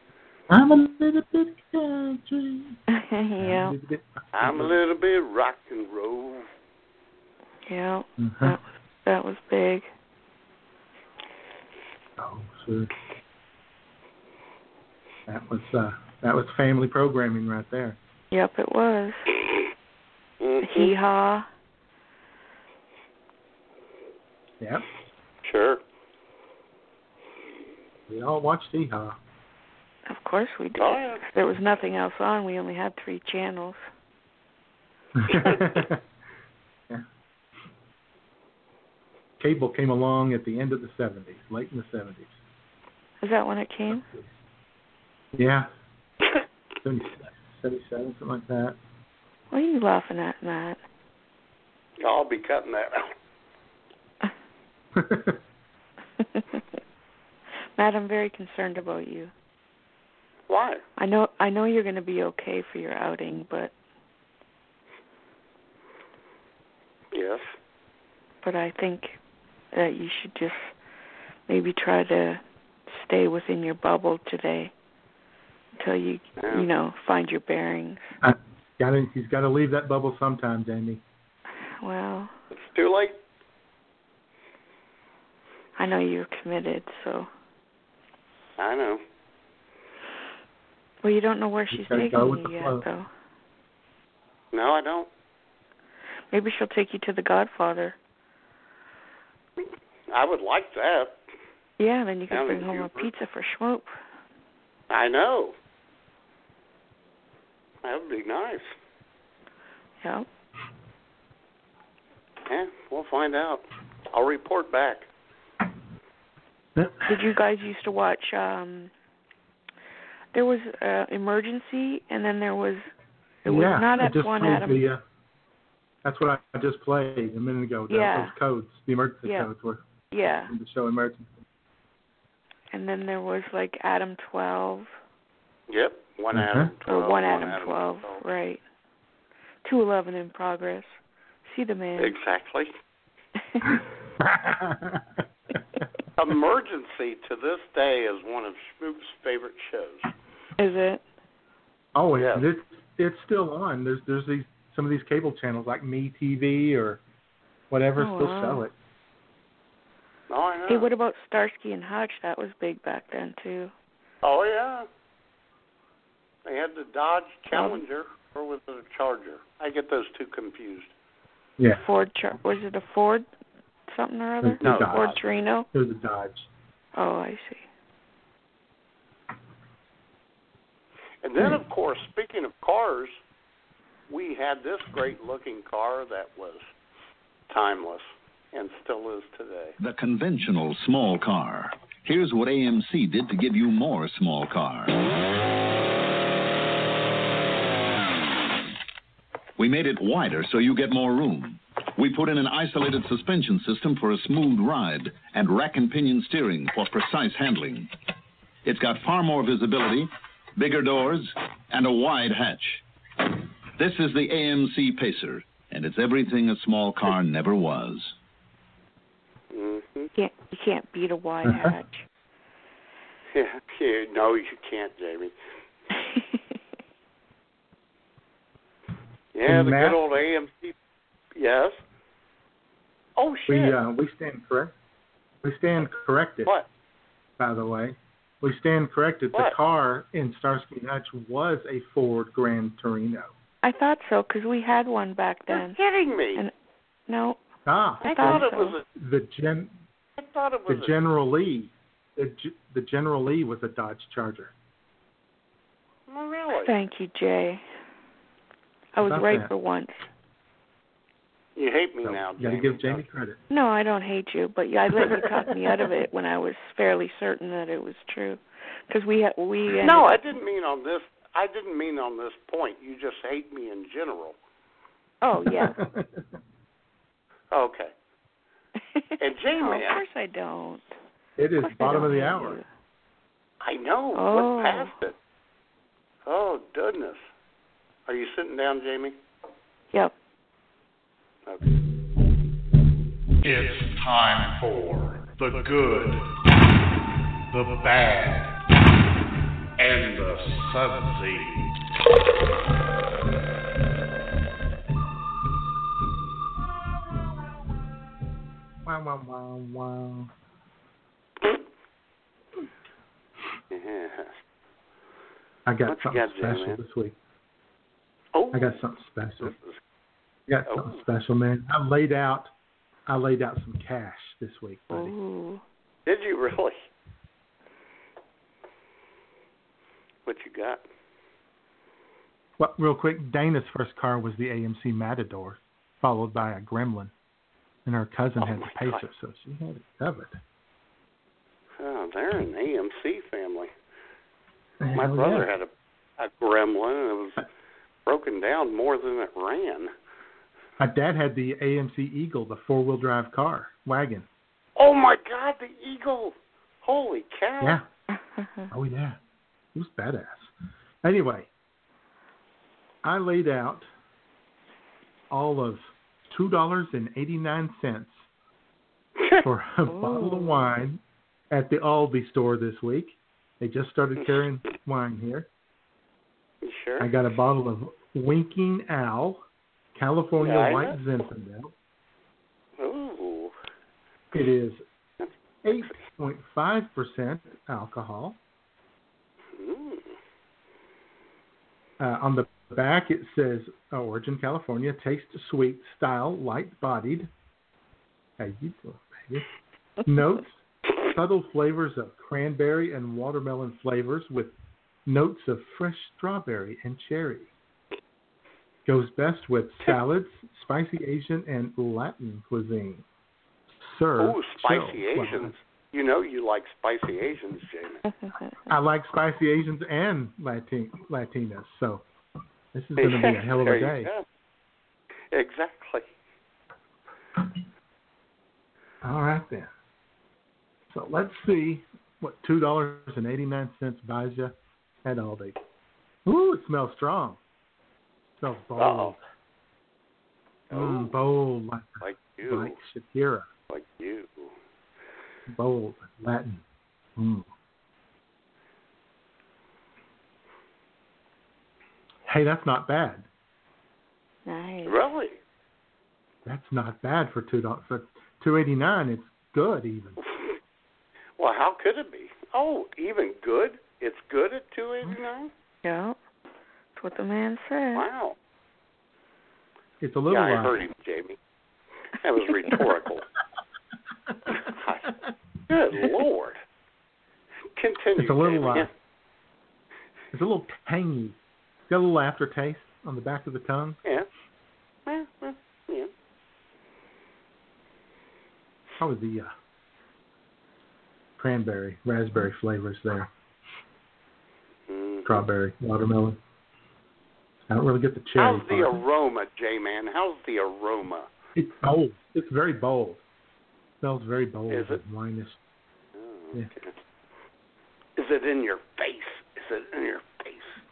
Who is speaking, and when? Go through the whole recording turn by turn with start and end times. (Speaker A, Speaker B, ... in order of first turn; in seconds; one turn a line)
Speaker A: 0.5-2.8
Speaker B: 2.9-3.8
Speaker A: 3.4-4.8
Speaker C: 4.3-6.5
Speaker B: 7.7-9.9
Speaker A: 8.2-8.6
Speaker A: 12.2-12.9
Speaker A: 15.3-18.0
Speaker B: 18.3-19.2
Speaker C: 20.4-20.9
Speaker B: 20.6-21.5
Speaker A: 24.6-24.9
Speaker C: 25.4-25.8
Speaker A: 28.1-29.2
Speaker B: 30.1-33.8
Speaker C: 30.8-31.2
Speaker A: 35.2-36.0
Speaker A: 39.4-42.3
Speaker B: 43.2-44.1
Speaker A: 43.9-44.3
Speaker A: 45.4-45.7
Speaker A: 46.8-48.8
Speaker B: 49.5-50.8
Speaker C: 52.0-53.1
Speaker A: 55.0-55.4
Speaker B: 56.2-56.6
Speaker B: 57.8-59.3
Speaker C: 60.5-60.8
Speaker B: 61.0-63.7
Speaker C: 67.1-67.5
Speaker B: 68.4-69.2
Speaker B: 69.7-70.7
Speaker B: 71.5-74.7
Speaker B: 75.8-78.1
Speaker C: 76.4-76.7
Speaker A: 78.2-81.0
Speaker B: 81.8-82.3
Speaker C: 82.5-83.2
Speaker B: 85.8-87.3
Speaker C: 88.6-89.0
Speaker B: 91.0-93.1
Speaker A: 91.7-92.8
Speaker C: 94.5-95.1
Speaker B: 96.3-98.0
Speaker C: 100.1-101.2
Speaker B: 101.8-104.0
Speaker C: 102.3-103.1
Speaker C: 104.9-105.5
Speaker C: 107.8-108.7
Speaker B: 110.0-110.3
Speaker C: 112.5-115.1
Speaker A: 116.8-117.1
Speaker B: 117.1-118.9
Speaker B: 120.3-122.9
Speaker B: 123.4-124.8
Speaker A: 123.5-125.0
Speaker A: 126.0-129.8
Speaker B: 127.9-128.4
Speaker B: 129.2-129.5
Speaker B: 130.1-130.5
Speaker A: 130.5-131.3
Speaker B: 132.7-134.9
Speaker C: 135.7-138.2
Speaker A: 136.3-136.7
Speaker B: 136.9-138.6
Speaker B: 139.6-142.2
Speaker C: 142.0-142.7
Speaker A: 143.7-145.1
Speaker C: 146.2-150.1
Speaker B: 150.6-151.0
Speaker A: 151.9-157.0
Speaker C: 152.2-152.5
Speaker A: 157.7-158.7
Speaker B: 158.0-158.7
Speaker C: 160.3-160.9
Speaker B: 160.7-163.7
Speaker C: 164.2-164.9
Speaker C: 166.4-170.9
Speaker B: 167.5-167.8
Speaker B: 171.7-173.3
Speaker B: 173.9-175.7
Speaker A: 174.4-175.2
Speaker C: 174.6-175.2
Speaker A: 175.7-176.5
Speaker B: 176.9-177.7
Speaker C: 181.2-183.2
Speaker C: 184.1-186.7
Speaker C: 187.5-189.8
Speaker D: 189.8-195.0
Speaker D: 199.6-207.9
Speaker D: 208.7-212.8
Speaker D: 213.8-218.1
Speaker C: 219.5-220.1
Speaker B: 220.2-222.1
Speaker A: 221.5-221.8
Speaker C: 223.3-225.3
Speaker B: 225.9-226.4
Speaker C: 229.3-230.8
Speaker A: 229.5-230.0
Speaker C: 231.3-231.8
Speaker C: 233.2-233.8
Speaker A: 233.5-234.7
Speaker A: 235.4-236.5
Speaker A: 237.4-243.3
Speaker B: 243.6-245.8
Speaker C: 245.5-246.4
Speaker B: 247.1-247.4
Speaker A: 247.7-249.8
Speaker B: 248.0-248.8
Speaker C: 248.0-248.8
Speaker C: 250.2-250.9
Speaker A: 250.7-254.5
Speaker C: 256.1-256.8
Speaker B: 256.6-257.6
Speaker B: 258.9-260.0
Speaker A: 259.0-259.5
Speaker C: 261.6-263.0
Speaker A: 262.0-263.4
Speaker B: 263.5-270.2
Speaker A: 265.0-265.3
Speaker C: 269.8-274.4
Speaker B: 275.2-275.8
Speaker A: 275.5-276.2
Speaker C: 277.5-277.9
Speaker C: 279.2-280.0
Speaker B: 279.6-281.0
Speaker A: 281.4-282.6
Speaker B: 281.6-282.7
Speaker C: 283.6-285.2
Speaker B: 284.1-284.9
Speaker C: 286.2-287.2
Speaker C: 288.1-289.2
Speaker E: 293.4-296.3
Speaker E: 297.5-298.6
Speaker E: 299.8-301.7
Speaker A: 308.9-310.3
Speaker C: 313.7-314.4
Speaker A: 315.7-317.2
Speaker C: 315.9-316.8
Speaker C: 318.3-318.8
Speaker A: 318.5-319.5
Speaker C: 319.4-319.8
Speaker A: 320.5-322.5
Speaker C: 320.7-321.0
Speaker A: 323.1-325.1
Speaker B: 324.9-325.6
Speaker C: 326.1-326.8
Speaker C: 330.2-330.8
Speaker A: 332.6-337.1
Speaker A: 337.9-340.4
Speaker C: 338.4-339.0
Speaker C: 341.8-343.7
Speaker A: 344.8-345.5
Speaker C: 344.9-347.4
Speaker C: 348.1-349.9
Speaker A: 350.8-354.3
Speaker C: 354.8-357.8
Speaker B: 358.1-358.7
Speaker A: 358.7-359.2
Speaker A: 359.8-360.5
Speaker A: 361.0-361.5
Speaker A: 363.0-363.9
Speaker A: 365.3-368.3
Speaker A: 369.4-371.0
Speaker B: 369.9-370.7
Speaker A: 371.5-375.5
Speaker C: 376.6-377.1
Speaker A: 377.0-379.4
Speaker A: 379.9-381.7
Speaker C: 380.4-381.0
Speaker C: 382.8-383.5
Speaker A: 384.3-384.8
Speaker C: 385.2-386.0
Speaker A: 385.6-388.4
Speaker C: 389.5-390.2
Speaker A: 392.0-397.3
Speaker A: 398.4-399.5
Speaker A: 400.1-404.6
Speaker A: 405.1-407.5
Speaker A: 408.9-413.0
Speaker A: 413.8-415.5
Speaker C: 414.2-418.0
Speaker B: 418.1-418.6
Speaker A: 418.7-422.1
Speaker A: 422.7-424.1
Speaker C: 423.0-424.3
Speaker C: 425.3-426.1
Speaker A: 429.0-429.7
Speaker A: 430.9-434.5
Speaker A: 435.1-435.6
Speaker A: 436.3-437.4
Speaker A: 438.4-439.2
Speaker C: 438.8-439.2
Speaker C: 440.7-441.1
Speaker A: 440.7-443.5
Speaker C: 442.0-442.8
Speaker C: 443.7-444.6
Speaker A: 445.5-446.6
Speaker A: 447.2-447.5
Speaker A: 452.3-453.3
Speaker B: 454.5-455.0
Speaker C: 454.9-455.4
Speaker A: 456.5-460.2
Speaker C: 460.3-460.6
Speaker C: 461.4-465.5
Speaker B: 465.8-466.2
Speaker B: 467.0-468.1
Speaker C: 467.9-468.4
Speaker A: 470.0-470.8
Speaker C: 470.3-471.4
Speaker C: 472.2-473.2
Speaker C: 474.5-475.1
Speaker C: 475.7-476.6
Speaker C: 477.8-478.9
Speaker A: 478.2-478.9
Speaker A: 480.3-481.4
Speaker A: 481.9-484.0
Speaker C: 485.1-486.1
Speaker A: 489.0-489.5
Speaker A: 491.4-493.3
Speaker C: 494.9-495.5
Speaker A: 495.3-496.4
Speaker A: 497.7-499.0
Speaker C: 498.4-501.3
Speaker A: 501.6-503.2
Speaker A: 504.0-505.6
Speaker C: 504.7-505.0
Speaker C: 506.1-506.9
Speaker C: 508.2-510.8